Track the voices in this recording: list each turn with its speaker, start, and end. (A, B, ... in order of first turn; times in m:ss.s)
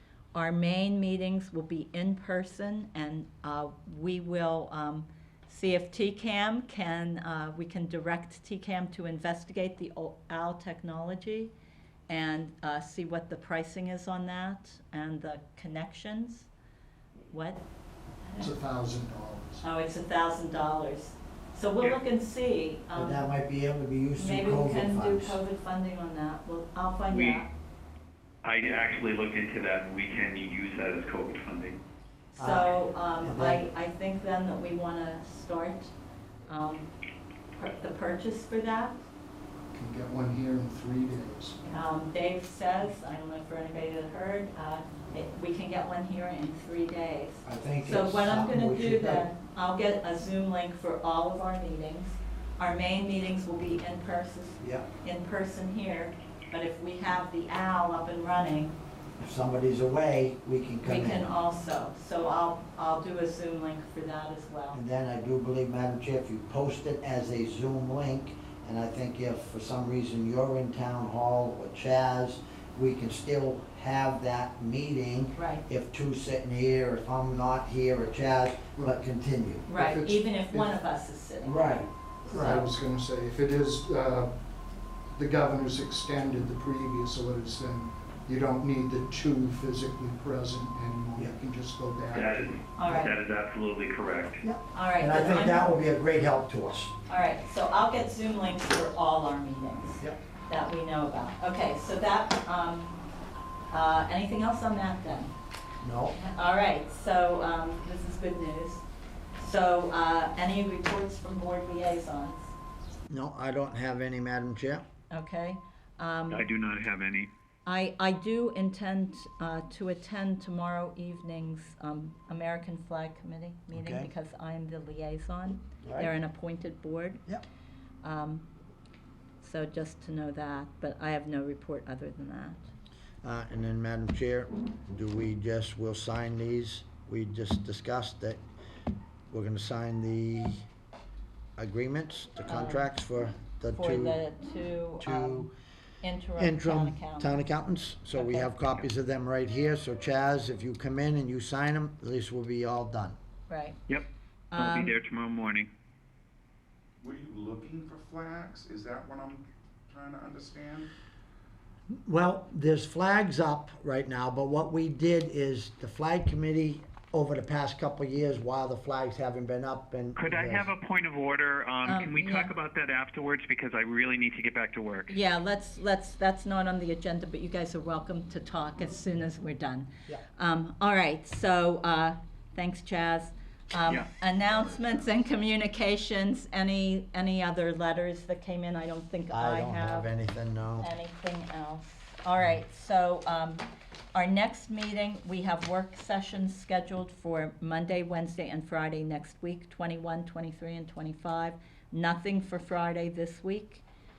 0:00.3-0:11.5 A
0:12.1-0:16.5 A
0:17.3-0:17.6 A
0:18.4-0:19.6 B
0:19.6-0:23.2 A
0:22.9-0:25.4 C
0:24.2-0:27.5 A
0:27.1-0:27.4 D
0:28.4-0:31.8 D
0:32.3-0:35.9 A
0:32.4-0:33.6 C
0:36.5-0:36.9 A
0:37.6-0:39.0 A
0:39.7-0:41.6 B
0:41.6-0:58.8 A
0:47.4-0:49.3 C
0:54.6-0:54.9 C
0:59.2-1:01.3 C
1:00.8-1:04.8 A
1:04.7-1:19.7 C
1:15.4-1:15.6 A
1:19.7-1:22.7 A
1:19.7-1:20.7 B
1:21.4-1:22.6 C
1:22.3-1:24.3 B
1:25.2-1:32.7 B
1:32.1-1:34.4 D
1:32.8-1:33.1 A
1:34.4-1:36.9 C
1:34.7-1:35.7 A
1:37.1-1:43.0 A
1:43.7-1:45.3 A
1:45.8-1:46.2 C
1:46.1-1:48.8 A
1:49.4-1:52.6 A
1:53.1-1:54.8 C
1:55.1-1:56.4 A
1:56.3-1:57.3 D
1:57.7-2:07.2 A
2:03.7-2:04.1 C
2:05.8-2:06.1 C
2:08.0-2:08.5 A
2:09.4-2:12.6 A
2:13.2-2:18.4 C
2:19.3-2:20.6 C
2:21.6-2:24.2 C
2:22.5-2:22.9 A
2:23.7-2:25.5 A
2:25.0-2:25.5 C
2:26.0-2:27.4 A
2:26.4-2:33.2 C
2:28.1-2:28.5 A
2:33.5-2:33.8 A
2:33.9-2:35.7 D
2:34.5-2:35.0 A
2:37.0-2:40.9 E
2:42.0-2:50.7 C
2:50.2-2:55.1 D
2:51.8-2:52.5 A
2:55.1-3:10.1 A
3:09.3-3:10.9 C
3:10.8-3:23.8 A